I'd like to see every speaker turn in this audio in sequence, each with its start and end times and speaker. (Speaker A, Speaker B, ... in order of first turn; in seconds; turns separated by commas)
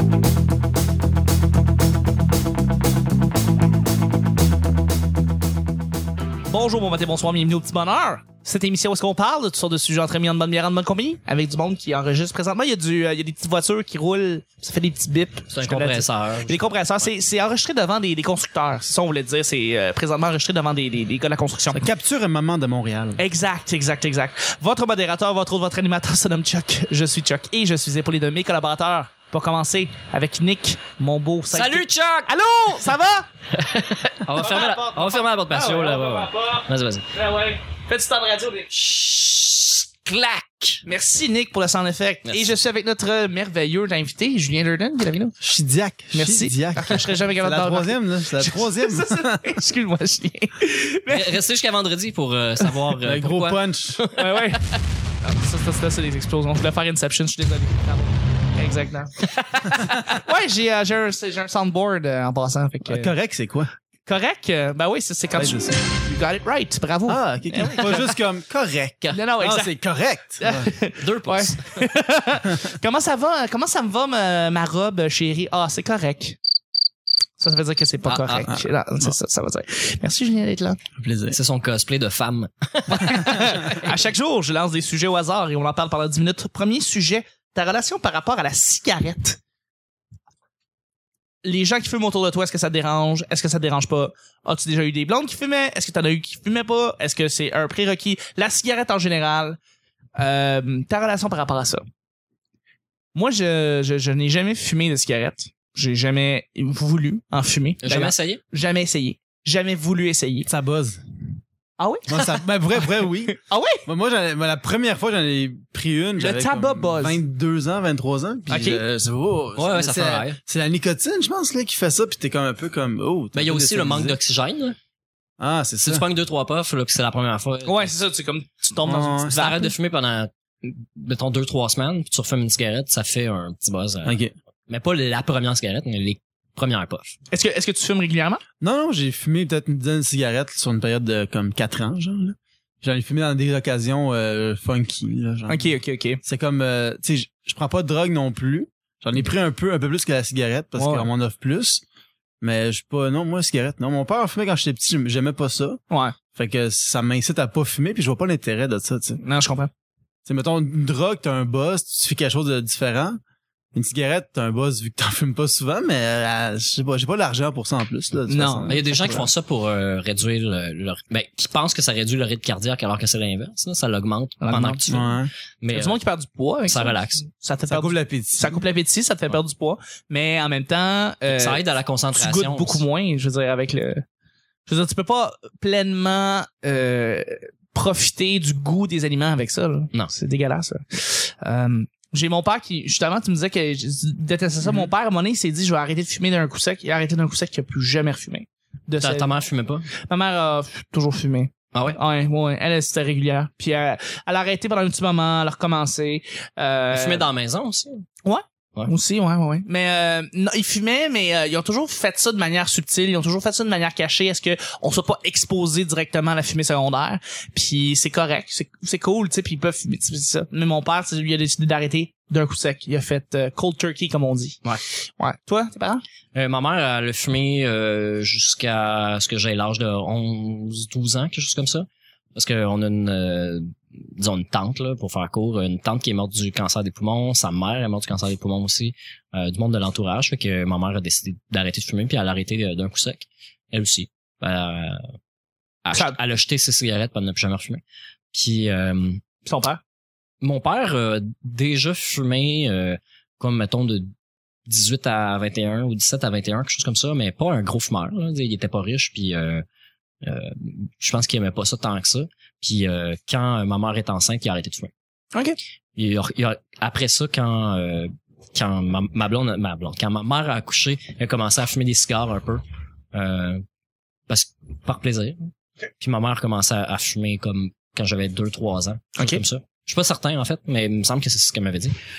Speaker A: 6.5-21.9, Speaker B: 15.5-17.1, Speaker C: 21.7-23.2, Speaker A: 23.2-33.2, Speaker B: 31.5-32.9, Speaker B: 33.5-37.0, Speaker A: 34.4-38.7, Speaker B: 38.7-40.8, Speaker A: 40.8-45.4, Speaker B: 42.2-42.5, Speaker C: 45.4-49.5, Speaker A: 46.1-51.3, Speaker B: 51.1-54.4, Speaker C: 53.0-54.0, Speaker A: 54.1-54.7, Speaker A: 55.2-63.1, Speaker C: 62.9-63.7, Speaker A: 64.0-68.1, Speaker C: 65.4-65.7, Speaker C: 67.1-70.7, Speaker A: 69.1-69.8, Speaker A: 70.4-76.4, Speaker B: 71.0-71.9, Speaker A: 77.4-80.8, Speaker B: 78.0-78.5, Speaker C: 81.0-81.4, Speaker B: 81.3-83.7, Speaker A: 82.9-89.4, Speaker A: 91.4-99.6, Speaker A: 100.2-101.8, Speaker A: 103.1-110.5, Speaker B: 107.8-108.4, Speaker C: 110.5-111.0, Speaker A: 111.8-112.3, Speaker C: 112.1-124.2, Speaker A: 113.3-113.8, Speaker A: 116.2-117.2, Speaker A: 118.5-118.8, Speaker B: 119.5-120.4, Speaker B: 123.3-124.7, Speaker C: 125.4-126.0, Speaker B: 125.8-127.9, Speaker A: 127.6-129.7, Speaker C: 128.8-129.4, Speaker B: 129.3-134.2, Speaker C: 134.0-134.3, Speaker B: 134.7-137.2, Speaker A: 137.3-138.4, Speaker C: 138.6-145.7, Speaker A: 145.5-146.2, Speaker C: 146.2-151.8, Speaker A: 150.8-151.1, Speaker C: 152.4-155.8, Speaker C: 156.3-159.2, Speaker A: 159.2-159.7, Speaker C: 160.2-163.2, Speaker C: 163.7-169.3, Speaker A: 168.3-168.8, Speaker B: 168.7-176.0, Speaker A: 174.4-174.8, Speaker C: 174.9-175.3, Speaker A: 175.7-184.0, Speaker B: 176.7-177.2, Speaker C: 177.7-178.6, Speaker B: 181.3-182.8, Speaker A: 184.7-199.3, Speaker C: 194.6-194.9, Speaker B: 199.0-199.9, Speaker A: 200.1-207.3, Speaker B: 201.7-202.0, Speaker B: 206.9-208.0, Speaker A: 208.2-226.0, Speaker B: 226.3-245.0, Speaker B: 245.8-247.8, Speaker A: 245.9-246.2, Speaker B: 248.3-249.2, Speaker A: 249.4-249.8, Speaker B: 250.4-254.1, Speaker B: 254.7-259.6, Speaker B: 260.2-264.9, Speaker B: 265.9-272.6, Speaker B: 273.1-273.6, Speaker B: 274.3-275.4, Speaker B: 276.0-281.9, Speaker A: 279.2-279.4